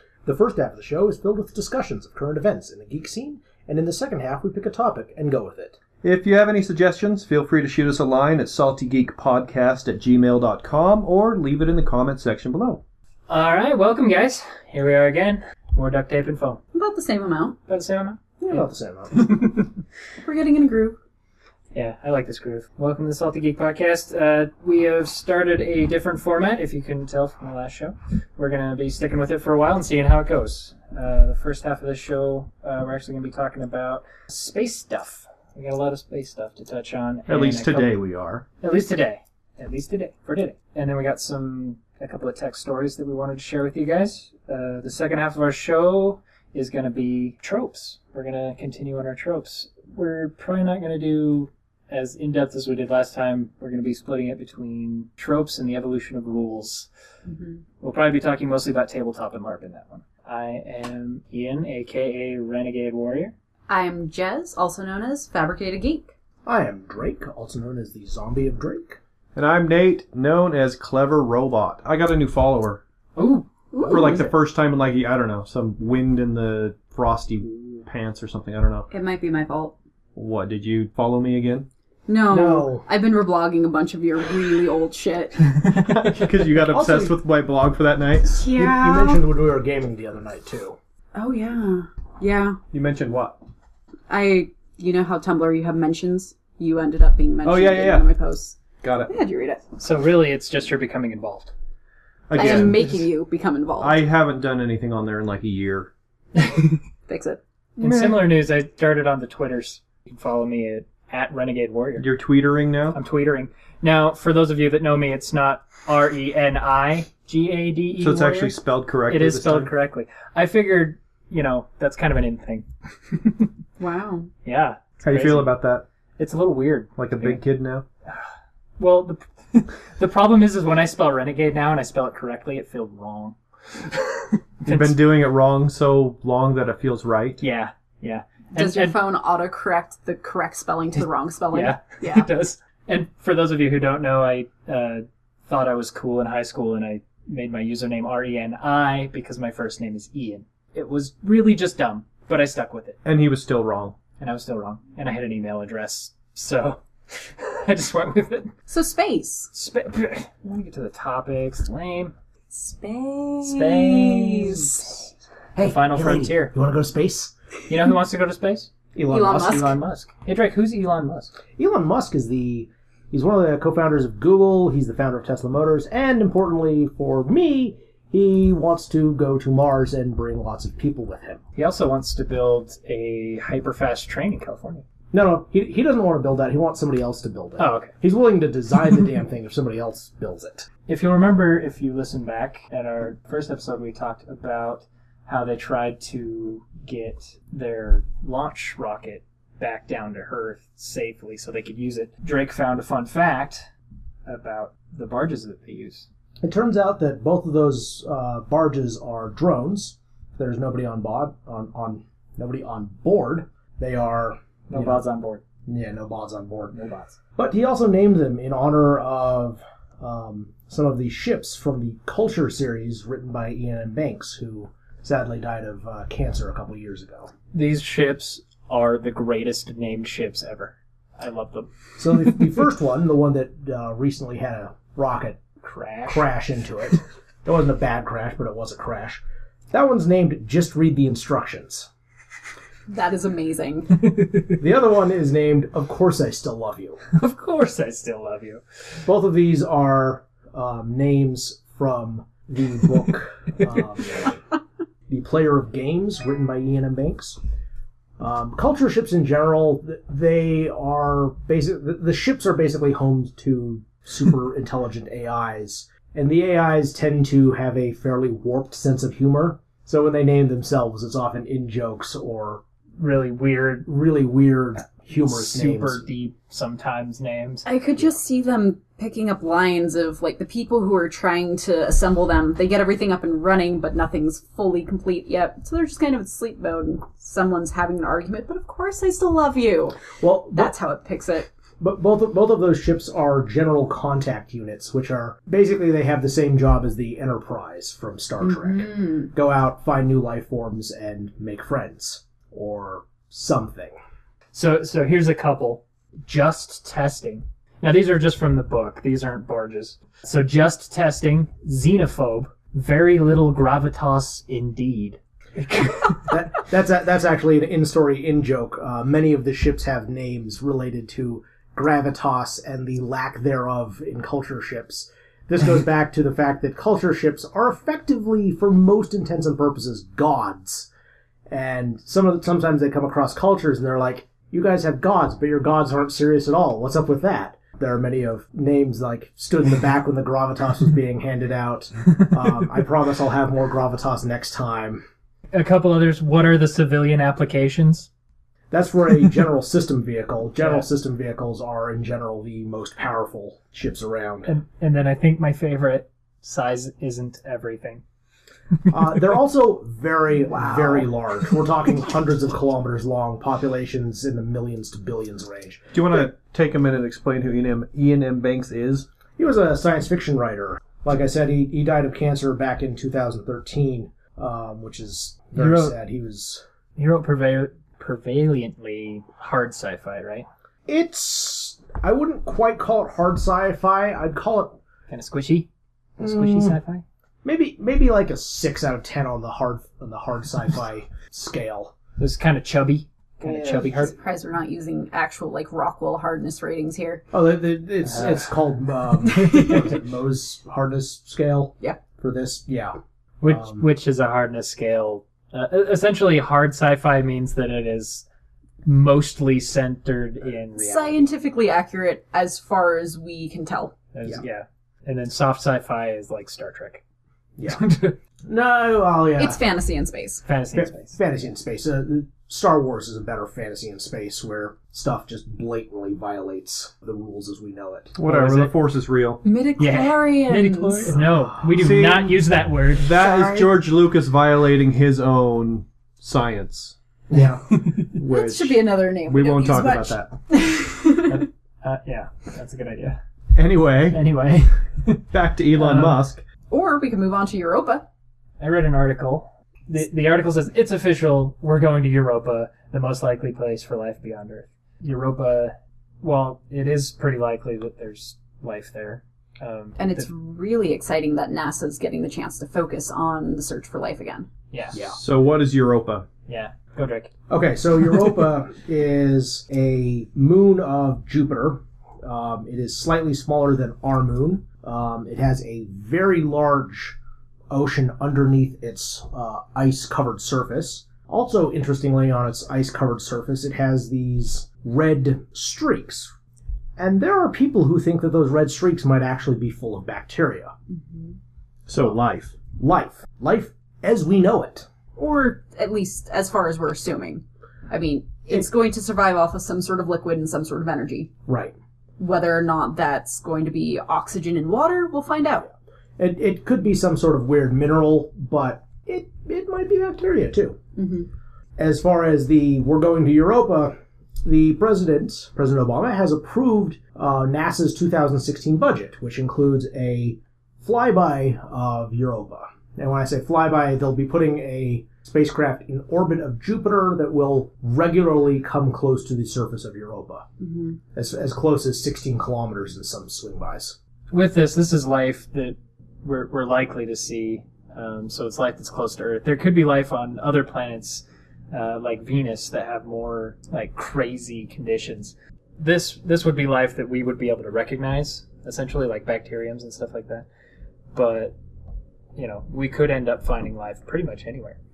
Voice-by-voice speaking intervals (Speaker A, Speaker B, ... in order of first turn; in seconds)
Speaker A: 0.2-5.8, 18.4-19.3, 66.4-69.0, 82.3-82.8, 86.7-87.2, 88.5-90.8, 165.5-167.3, 168.9-169.7, 171.6-181.4, 185.1-190.7, 206.4-215.0, 215.7-216.7, 217.3-227.3, 232.0-235.4, 236.0-241.9, 244.6-247.0, 249.0-254.4, 255.1-257.4, 258.2-272.6, 273.8-276.0, 290.2-290.7, 291.8-304.0, 316.3-330.9, 331.5-345.0, 348.7-354.5, 358.9-365.9, 369.4-376.6, 380.9-384.8, 386.2-386.8, 387.4-391.9, 393.4-393.8, 397.3-403.8, 418.4-419.6, 420.7-428.1, 437.3-437.6, 467.5-477.2, 477.7-486.3, 487.0-490.7, 492.7-494.9, 501.5-501.8, 506.2-510.8, 511.8-530.5, 531.1-534.0
Speaker B: 6.0-12.8, 37.3-38.4, 69.3-72.8, 73.8-78.9, 80.1-81.7, 85.7-88.4, 92.7-93.4, 97.4-98.0, 98.8-99.1, 102.3-103.1, 103.8-105.9, 107.8-108.3, 112.0-113.0, 118.0-119.7, 125.0-125.8, 127.0-127.8, 134.6-137.4, 153.0-154.0, 365.9-369.1, 428.1-429.4, 431.7-432.4, 433.0-436.9, 437.9-440.3, 443.5-444.2, 445.3-446.4, 465.1-466.3, 491.9-492.6
Speaker C: 13.3-16.6, 17.7-19.7, 21.7-38.0, 38.6-56.9, 57.8-63.3, 73.2-73.5, 85.6-86.3, 99.8-101.5, 102.4-102.7, 106.3-106.8, 107.8-112.1, 112.9-123.5, 124.4-125.5, 126.2-127.4, 128.1-135.0, 137.4-138.9, 141.0-153.0, 154.2-158.5, 159.5-162.1, 163.4-165.0, 165.6-166.5, 167.7-168.7, 169.4-171.3, 181.6-184.8, 187.6-187.9, 190.9-203.7, 204.2-206.1, 214.7-215.4, 216.7-217.2, 227.5-231.7, 235.7-236.3, 244.0-244.6, 247.1-248.6, 273.0-273.9, 275.2-278.0, 304.5-316.3, 345.5-348.1, 350.6-350.9, 354.4-358.0, 375.6-375.9, 376.9-380.5, 385.1-385.7, 386.2-387.0, 392.2-394.1, 398.1-398.4, 399.4-399.7, 403.4-408.2, 408.8-411.3, 414.1-417.0, 417.7-418.1, 420.4-421.2, 428.2-428.7, 429.8-433.1, 441.2-443.2, 444.1-445.2, 445.7-446.2, 448.6-460.3, 464.7-465.0, 466.5-467.3, 534.3-550.5, 551.1-551.5, 552.4-554.8
Speaker D: 16.7-17.6, 20.2-21.0, 57.2-57.6, 63.7-66.1, 73.7-74.3, 78.9-79.7, 82.1-85.4, 88.2-89.2, 91.1-92.6, 94.1-98.6, 99.1-99.6, 102.3-104.0, 107.1-107.4, 123.8-124.3, 138.5-142.3, 158.7-159.5, 162.5-165.0, 169.1-169.7, 242.9-243.9, 277.6-291.5, 298.4-299.3, 360.5-361.1, 393.6-397.2, 399.5-399.7, 410.8-413.9, 419.4-420.4, 429.4-431.1, 433.2-433.7, 438.1-441.4, 446.7-448.1, 460.0-464.5, 490.9-491.3, 495.2-501.3, 502.2-505.7, 510.9-511.3, 530.6-531.0